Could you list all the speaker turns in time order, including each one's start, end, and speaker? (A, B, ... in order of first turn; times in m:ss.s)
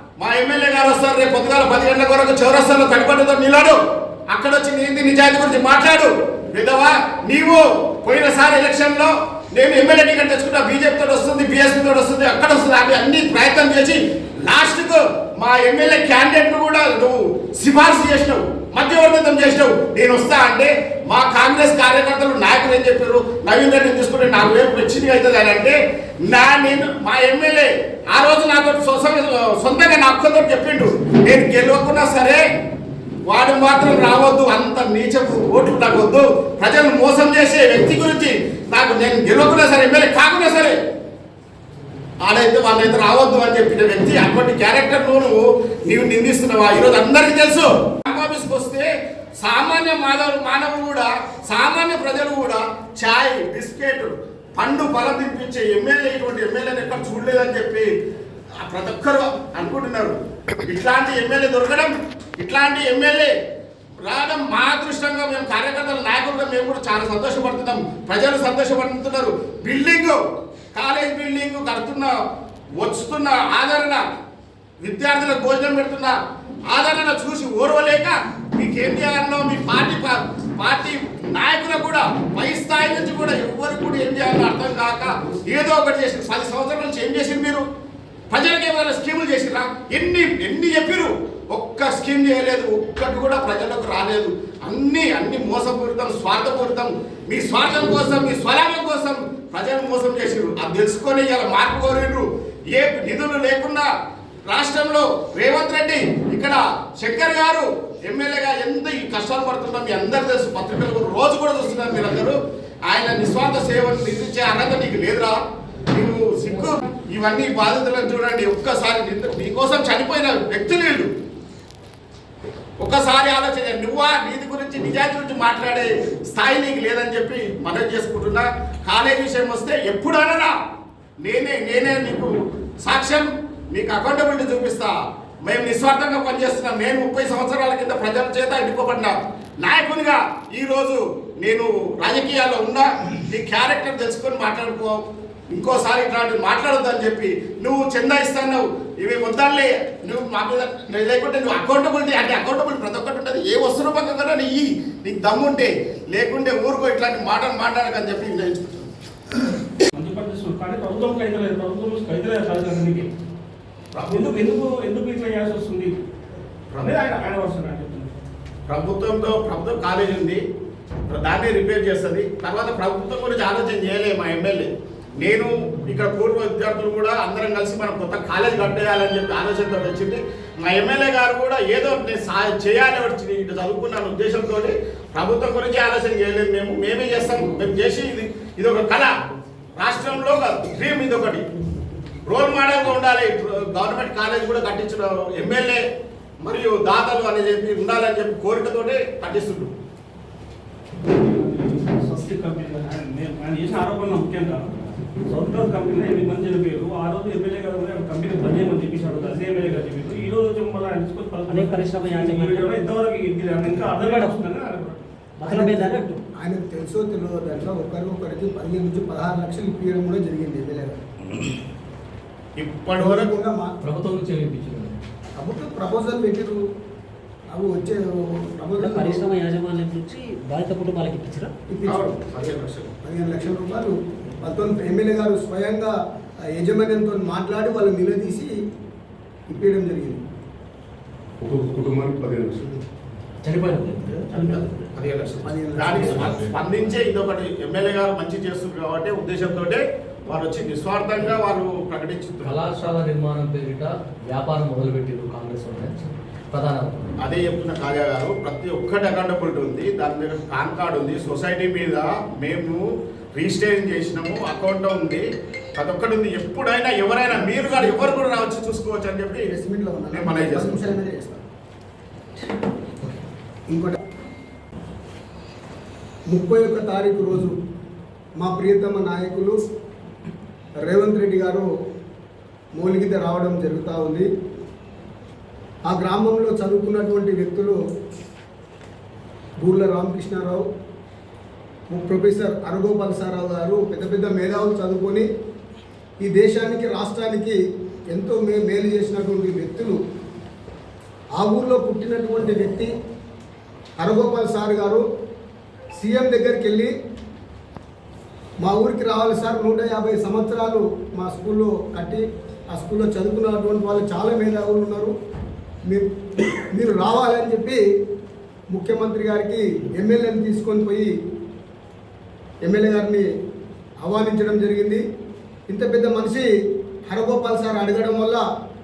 0:00.2-0:03.8 A
0:04.3-0:32.4 A
0:33.3-0:40.8 A
0:42.2-0:48.9 A
0:49.4-0:57.9 A
0:58.6-1:03.3 A
1:04.0-1:10.2 A
1:10.7-1:12.1 A
1:12.8-1:14.0 A
1:14.8-1:16.1 A
1:16.7-1:27.6 A
1:28.3-1:43.9 A
1:44.5-1:52.4 A
1:52.9-1:55.4 A
1:55.9-2:01.1 A
2:02.8-2:10.5 A
2:11.2-2:38.9 A
2:40.0-2:43.1 B
2:43.9-2:44.4 A
2:44.1-2:46.0 B
2:46.7-2:47.0 A
2:46.8-2:48.2 B
2:48.7-2:50.4 A
2:51.1-3:09.1 A
3:09.8-3:11.4 A
3:12.3-3:15.8 A
3:16.4-3:19.7 A
3:21.0-3:24.7 B
3:25.3-3:35.0 B
3:31.5-3:32.8 C
3:34.0-3:34.4 C
3:35.4-3:36.2 C
3:35.4-3:41.0 D
3:42.6-3:43.3 A
3:43.0-3:43.8 D
3:43.8-3:45.0 E
3:45.4-3:46.6 D
3:47.5-3:49.2 D
3:48.8-3:51.5 C
3:51.7-3:52.1 D
3:51.9-3:52.9 A
3:53.0-3:55.9 D
3:56.5-3:58.5 D
3:59.5-4:00.2 D
4:01.4-4:02.8 F
4:03.4-4:04.3 E
4:04.3-4:12.7 A
4:05.4-4:06.4 D
4:05.8-4:06.6 F
4:12.4-4:17.1 E
4:17.2-4:22.8 A
4:23.4-4:25.2 A
4:25.8-4:29.5 A
4:29.4-4:31.4 D
4:30.1-4:30.9 A
4:33.7-4:34.0 D
4:36.3-4:37.6 D
4:38.4-4:39.6 D
4:40.8-4:41.7 D
4:42.8-4:44.3 D
4:45.9-4:47.8 D
4:49.6-4:50.6 D
4:51.9-4:55.3 D
4:56.2-4:57.6 D
4:58.1-5:00.0 D
5:01.4-5:02.9 D
5:04.0-5:05.0 D
5:05.9-5:06.9 D
5:08.6-5:15.1 D
5:15.9-5:17.8 D
5:18.7-5:21.1 D
5:22.6-5:23.3 D
5:24.0-5:25.0 D
5:25.7-5:26.5 D
5:27.1-5:28.4 D